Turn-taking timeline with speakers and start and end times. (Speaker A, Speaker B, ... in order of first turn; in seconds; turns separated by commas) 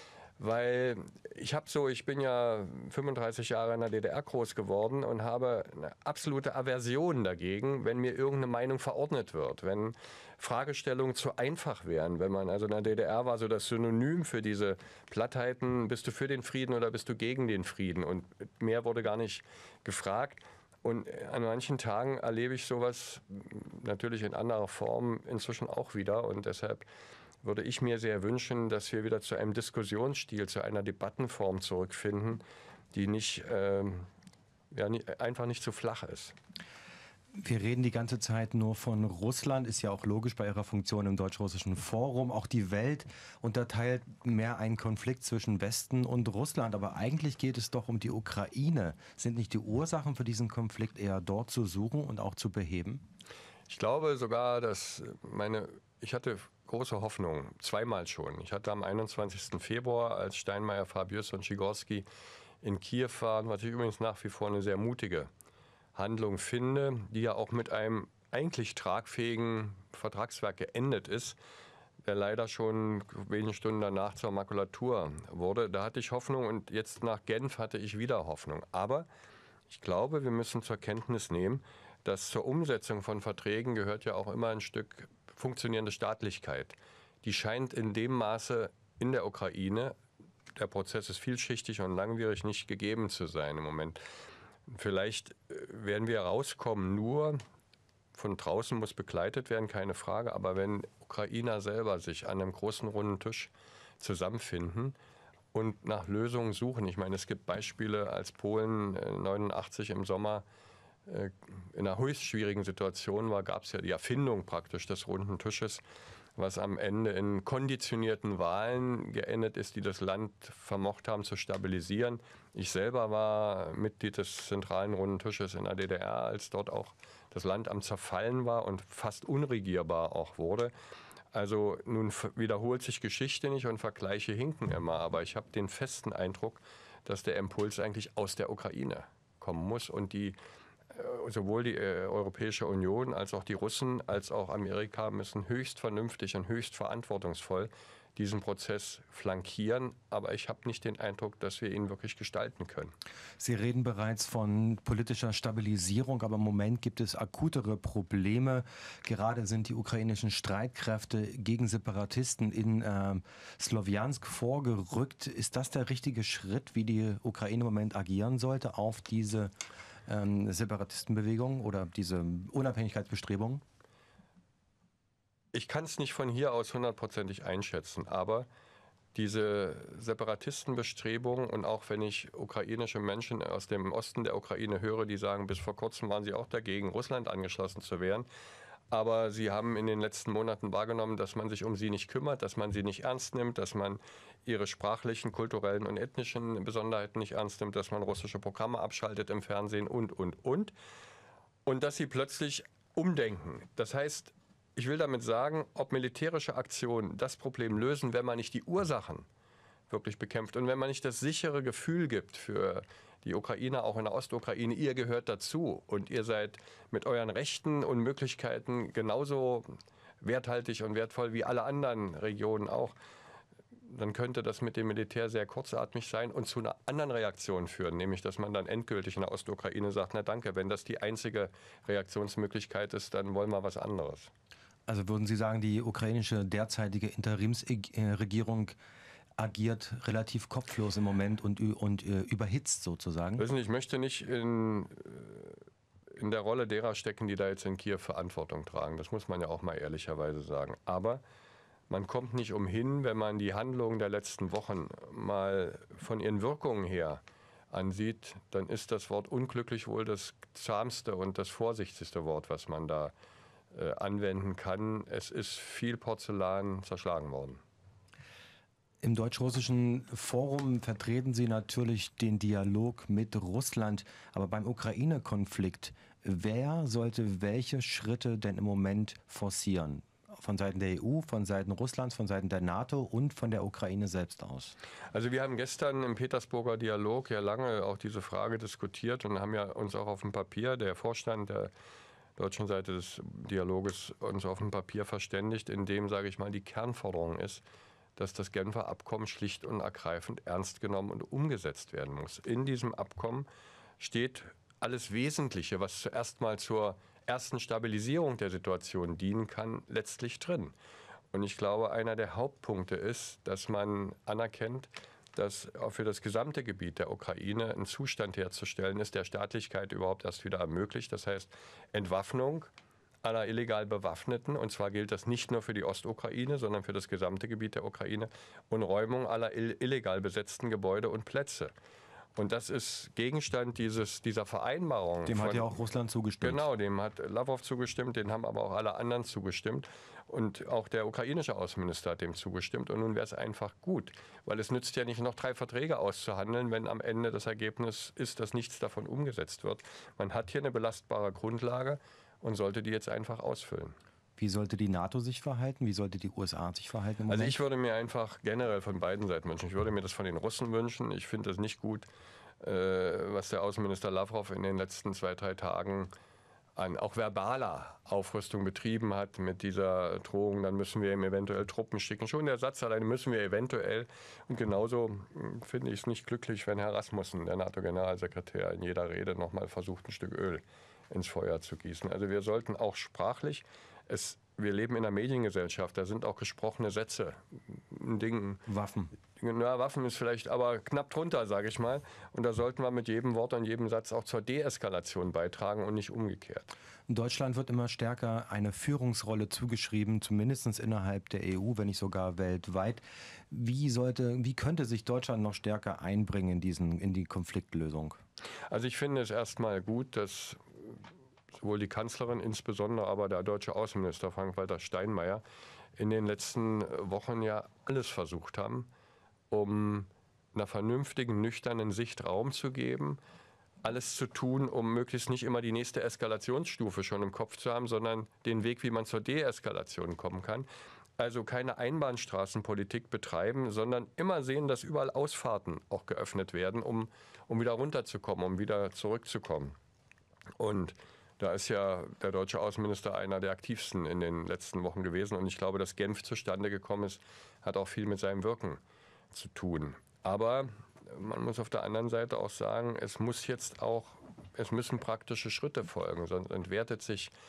Speaker A: 0.4-26.8, Speaker A: 27.4-34.1, Speaker A: 34.7-36.3, Speaker B: 37.4-53.0, Speaker A: 53.7-62.0, Speaker A: 62.6-65.3, Speaker A: 65.9-71.4, Speaker A: 72.0-79.1, Speaker A: 79.7-89.9, Speaker A: 90.5-94.0, Speaker A: 94.7-97.4, Speaker A: 98.1-105.0, Speaker A: 105.5-110.4, Speaker A: 111.1-115.8, Speaker A: 116.4-130.7, Speaker A: 131.3-140.4, Speaker A: 140.9-152.9, Speaker B: 153.4-169.5, Speaker B: 170.1-173.6, Speaker A: 175.5-178.5, Speaker A: 179.1-188.3, Speaker A: 188.9-200.7, Speaker A: 201.7-209.3, Speaker A: 209.9-222.9, Speaker A: 223.9-234.3, Speaker B: 234.9-238.7, Speaker B: 239.4-243.4, Speaker A: 243.4-245.6, Speaker A: 246.2-251.2, Speaker A: 251.9-263.1, Speaker A: 263.7-267.6, Speaker B: 269.0-284.7, Speaker A: 285.1-291.7, Speaker A: 292.4-297.6, Speaker A: 298.2-303.5, Speaker A: 304.0-310.7, Speaker A: 311.3-322.7, Speaker A: 323.2-331.7, Speaker A: 332.4-335.7, Speaker B: 335.2-336.6, Speaker A: 336.4-353.9, Speaker B: 354.4-357.6, Speaker A: 357.3-362.1, Speaker A: 362.6-366.1, Speaker A: 366.8-388.6, Speaker B: 388.7-389.1, Speaker A: 389.4-396.7, Speaker B: 397.1-408.2, Speaker A: 408.7-411.0, Speaker A: 411.5-415.4, Speaker A: 416.0-418.9, Speaker A: 419.5-423.2, Speaker A: 423.8-430.7, Speaker A: 431.2-439.7, Speaker A: 440.6-448.8, Speaker A: 449.3-457.3